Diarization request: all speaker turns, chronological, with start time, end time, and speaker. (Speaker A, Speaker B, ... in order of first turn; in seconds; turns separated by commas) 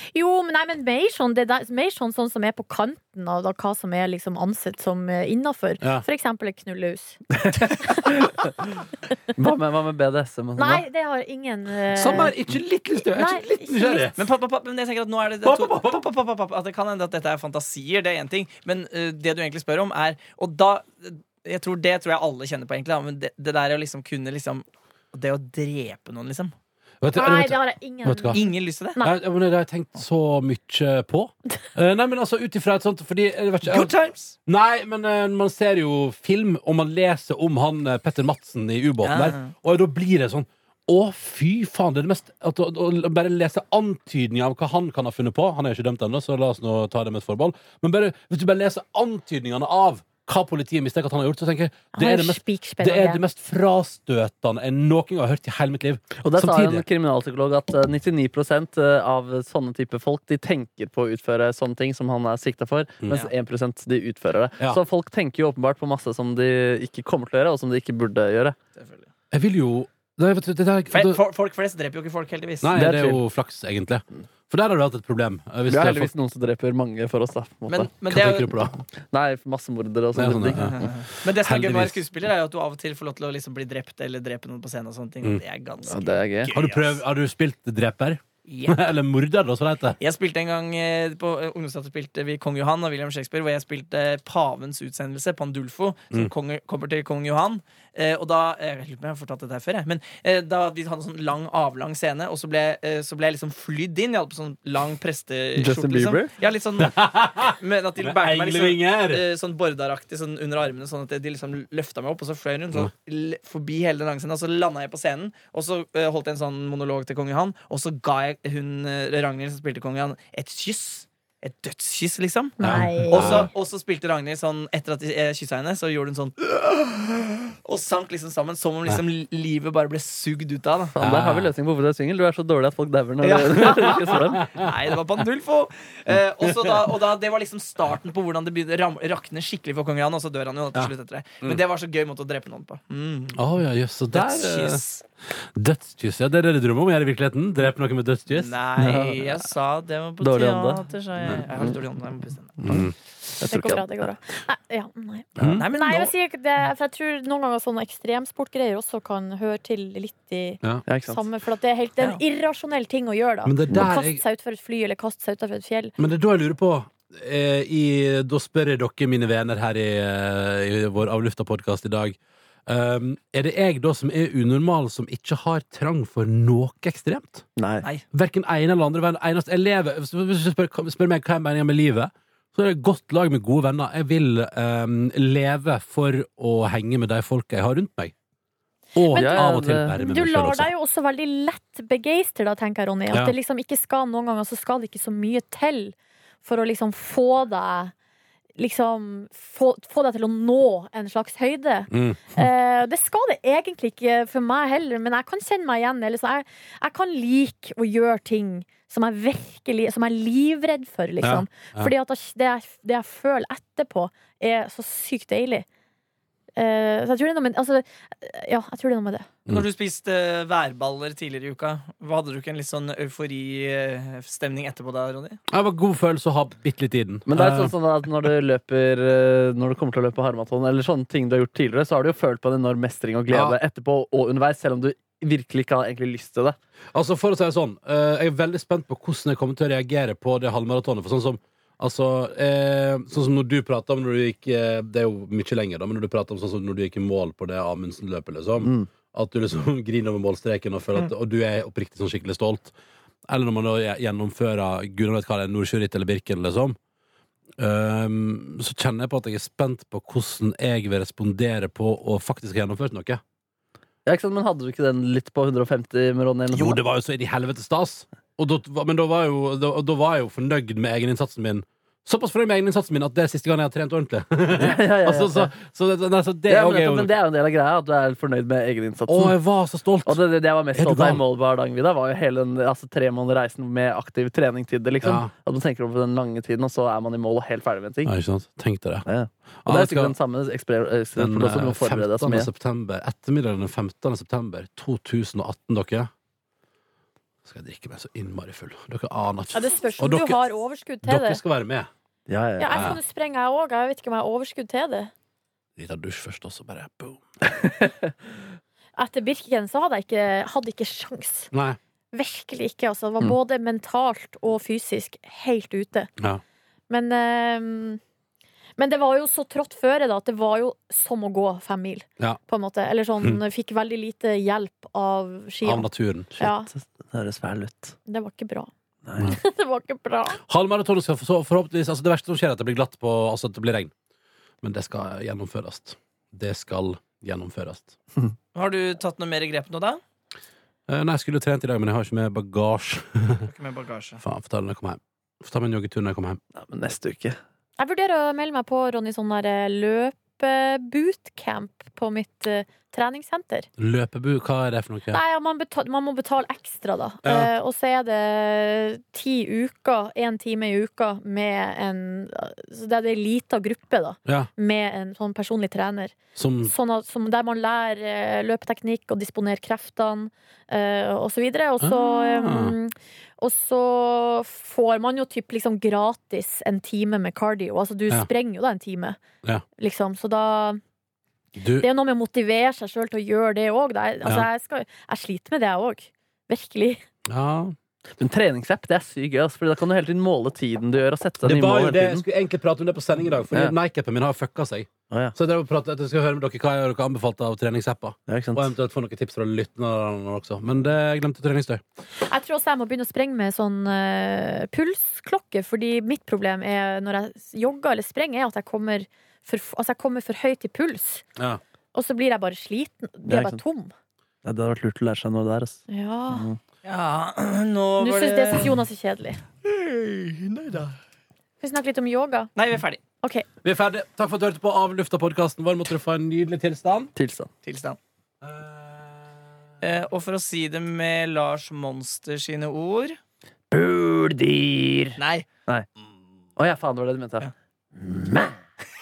Speaker A: 0.1-7.2, Speaker B: 7.3-8.8, Speaker B: 9.3-10.8, Speaker A: 10.6-12.3, Speaker C: 11.9-14.2, Speaker A: 13.1-14.1, Speaker D: 14.2-26.5, Speaker C: 15.4-16.0, Speaker C: 27.0-28.4, Speaker A: 27.1-29.1, Speaker D: 28.3-29.0, Speaker C: 29.0-33.9, Speaker D: 33.6-34.4, Speaker C: 34.5-56.8, Speaker D: 39.0-39.5, Speaker A: 51.9-53.2, Speaker B: 56.2-68.5, Speaker D: 68.8-69.1, Speaker C: 69.3-71.2, Speaker D: 70.9-72.8, Speaker C: 72.6-76.1, Speaker B: 72.7-73.2, Speaker B: 75.7-77.9, Speaker D: 77.7-78.5, Speaker C: 78.1-78.8, Speaker B: 79.1-80.9, Speaker C: 80.1-82.0, Speaker D: 80.6-87.0, Speaker B: 85.9-86.5, Speaker C: 86.5-90.0, Speaker D: 88.5-88.9, Speaker D: 90.0-122.6, Speaker B: 105.6-106.3, Speaker C: 106.8-109.2, Speaker A: 122.6-123.5, Speaker C: 122.6-123.5, Speaker D: 123.1-130.9, Speaker B: 130.9-134.4, Speaker C: 131.0-131.5, Speaker D: 133.2-143.4, Speaker C: 134.3-134.7, Speaker C: 136.4-136.9, Speaker C: 143.3-144.8, Speaker D: 144.1-145.0, Speaker C: 145.4-148.5, Speaker D: 148.3-152.6, Speaker B: 148.8-149.4, Speaker B: 150.2-150.8, Speaker C: 152.6-152.9, Speaker B: 152.7-154.1, Speaker A: 153.4-165.9, Speaker C: 155.4-155.7, Speaker D: 155.5-156.1, Speaker B: 160.9-161.2, Speaker C: 163.4-164.2, Speaker C: 166.0-177.4, Speaker B: 177.6-177.8, Speaker C: 178.1-188.1, Speaker C: 188.9-190.7, Speaker A: 189.1-197.9, Speaker B: 189.1-189.9, Speaker A: 198.6-215.7, Speaker C: 201.9-202.4, Speaker C: 211.2-211.9, Speaker A: 216.6-219.3, Speaker D: 219.5-225.4, Speaker C: 225.5-228.2, Speaker B: 227.3-236.6, Speaker C: 233.3-233.6, Speaker C: 236.9-252.7, Speaker B: 248.6-248.9, Speaker C: 253.3-256.8, Speaker C: 257.6-263.2, Speaker B: 264.0-266.8, Speaker C: 266.5-277.1, Speaker B: 274.6-275.5, Speaker B: 276.5-279.3, Speaker C: 279.1-280.2, Speaker B: 280.1-288.1, Speaker C: 280.7-281.2, Speaker C: 285.0-285.3, Speaker C: 288.0-289.0, Speaker B: 289.1-292.5, Speaker C: 289.6-290.1, Speaker C: 291.1-296.1, Speaker C: 297.4-300.4, Speaker A: 299.5-301.4, Speaker C: 301.0-301.9, Speaker B: 302.3-302.9, Speaker A: 302.6-305.1, Speaker C: 302.7-303.0, Speaker C: 305.8-307.2, Speaker B: 307.5-308.1, Speaker A: 309.0-311.5, Speaker C: 311.5-311.8, Speaker A: 312.1-316.1, Speaker A: 316.9-318.0, Speaker A: 318.8-326.7, Speaker C: 325.6-326.4, Speaker B: 326.4-327.9, Speaker A: 328.1-328.7, Speaker B: 329.0-329.3, Speaker A: 329.2-330.4, Speaker C: 330.4-333.9, Speaker C: 334.6-337.9, Speaker D: 338.5-340.0, Speaker C: 340.9-343.5, Speaker D: 343.4-344.2, Speaker C: 344.2-346.4, Speaker B: 346.5-347.4, Speaker A: 347.8-353.7, Speaker C: 353.8-355.2, Speaker A: 355.1-379.2, Speaker C: 357.2-357.5, Speaker C: 366.4-366.7, Speaker C: 371.8-372.7, Speaker A: 379.8-380.8, Speaker C: 381.6-381.9, Speaker A: 381.8-387.0, Speaker C: 387.3-387.7, Speaker B: 388.2-392.2, Speaker C: 391.4-401.8, Speaker B: 398.3-398.7, Speaker A: 402.2-411.2, Speaker A: 411.9-413.9, Speaker B: 413.3-413.6, Speaker B: 414.4-416.6, Speaker A: 415.9-416.5, Speaker D: 416.8-418.8, Speaker A: 418.0-419.4, Speaker D: 419.6-420.9, Speaker A: 421.6-422.5, Speaker D: 422.6-423.0, Speaker C: 423.6-427.1, Speaker B: 427.1-427.5, Speaker D: 427.6-428.0, Speaker C: 428.4-429.1, Speaker D: 429.8-433.2, Speaker B: 433.7-435.9, Speaker D: 435.2-435.5, Speaker B: 436.6-438.6